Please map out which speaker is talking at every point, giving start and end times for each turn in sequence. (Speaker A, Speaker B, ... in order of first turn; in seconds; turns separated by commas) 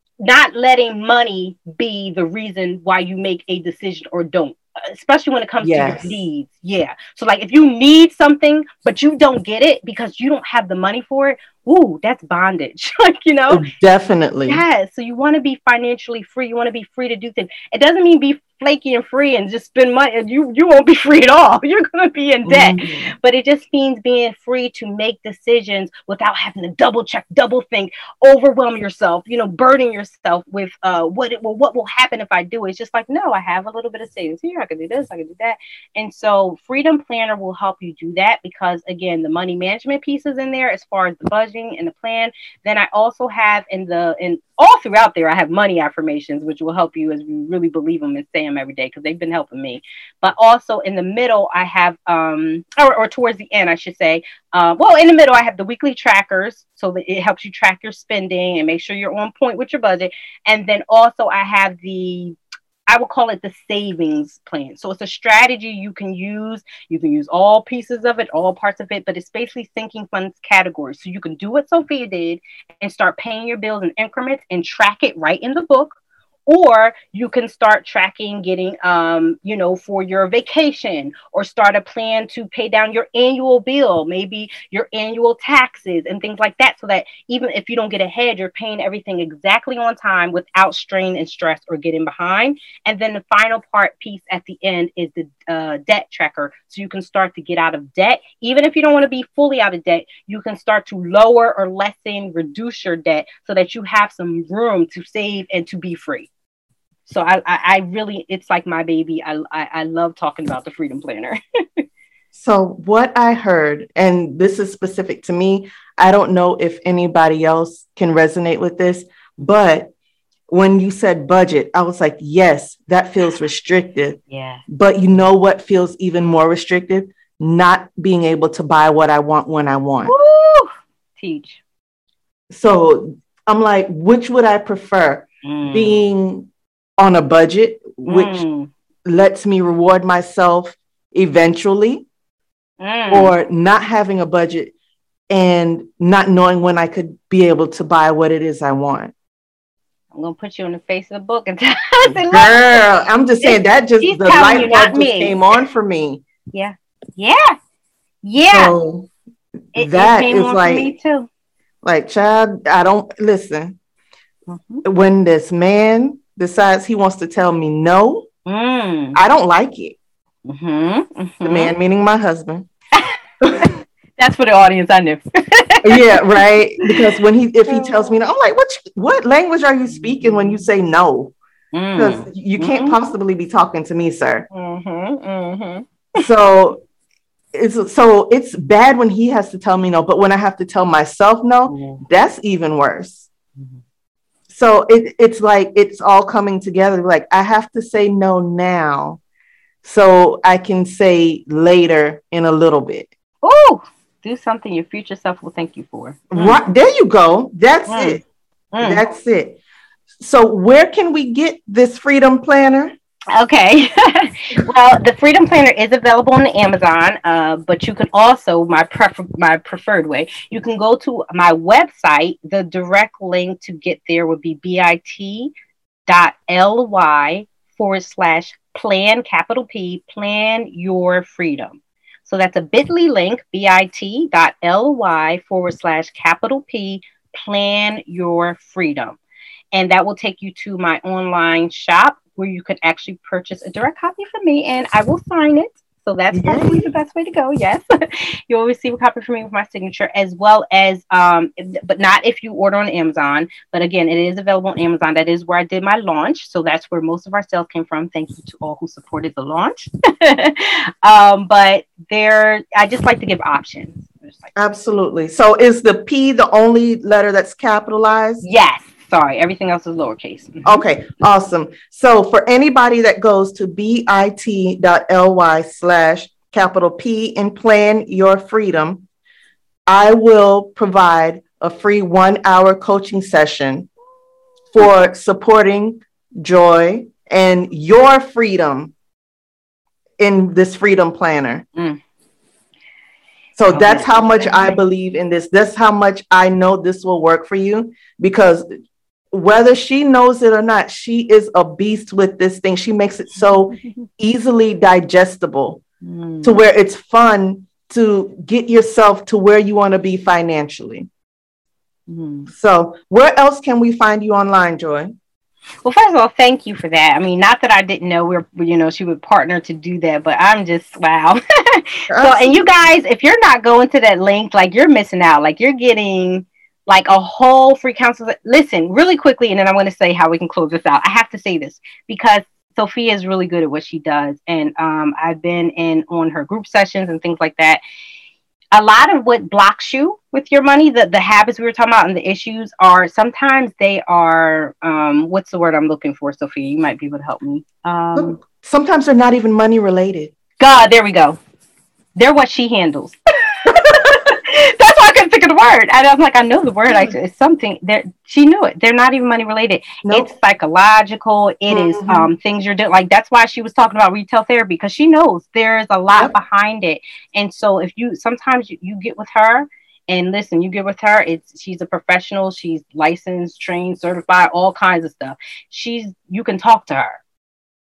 Speaker A: 0.2-13.6, Speaker B: 5.6-6.2, Speaker B: 13.5-14.6, Speaker A: 14.4-62.4, Speaker B: 22.4-23.1, Speaker A: 62.9-106.3, Speaker A: 107.1-111.8, Speaker B: 112.3-119.9, Speaker B: 120.5-130.1, Speaker A: 124.3-124.6, Speaker A: 130.0-131.6, Speaker B: 132.5-138.4, Speaker A: 135.4-136.0, Speaker A: 138.1-138.7, Speaker B: 139.0-142.1, Speaker A: 142.8-143.3, Speaker B: 143.1-144.7, Speaker B: 145.3-149.1, Speaker A: 150.1-152.6, Speaker B: 152.1-156.2, Speaker A: 153.4-155.4, Speaker A: 156.5-157.6, Speaker A: 158.2-158.7, Speaker B: 158.4-159.1, Speaker B: 159.7-160.9, Speaker A: 159.7-161.3, Speaker B: 161.8-163.8, Speaker A: 164.5-164.8, Speaker B: 164.8-168.3, Speaker A: 168.4-169.2, Speaker B: 169.1-169.9, Speaker A: 170.5-171.7, Speaker B: 171.4-172.7, Speaker A: 173.0-177.1, Speaker B: 175.8-181.3, Speaker A: 177.7-178.1, Speaker A: 179.9-180.6, Speaker A: 181.7-183.0, Speaker B: 181.9-184.4, Speaker A: 184.5-186.2, Speaker B: 186.2-186.8, Speaker B: 187.5-193.3, Speaker A: 191.7-192.0, Speaker B: 194.5-199.2, Speaker B: 199.8-203.1, Speaker A: 203.4-206.6, Speaker B: 206.3-208.2, Speaker A: 207.9-208.2, Speaker A: 208.7-209.0, Speaker B: 208.8-209.6, Speaker B: 210.2-212.9, Speaker A: 213.3-225.5, Speaker A: 226.1-239.2, Speaker A: 239.7-264.5, Speaker B: 246.3-246.9, Speaker B: 264.6-268.4, Speaker A: 268.4-270.8, Speaker B: 270.6-279.0, Speaker B: 279.9-283.9, Speaker B: 284.7-288.9, Speaker B: 290.2-291.6, Speaker B: 293.6-298.6, Speaker A: 293.7-294.8, Speaker B: 299.3-305.8, Speaker A: 303.8-304.0, Speaker A: 306.0-306.6, Speaker B: 306.4-311.1, Speaker A: 312.1-312.5, Speaker B: 312.5-315.2, Speaker A: 315.8-337.8, Speaker B: 322.1-322.7, Speaker A: 338.7-348.4, Speaker B: 348.1-350.3, Speaker A: 350.6-351.4, Speaker A: 352.1-377.2, Speaker B: 360.0-360.3, Speaker B: 361.7-362.3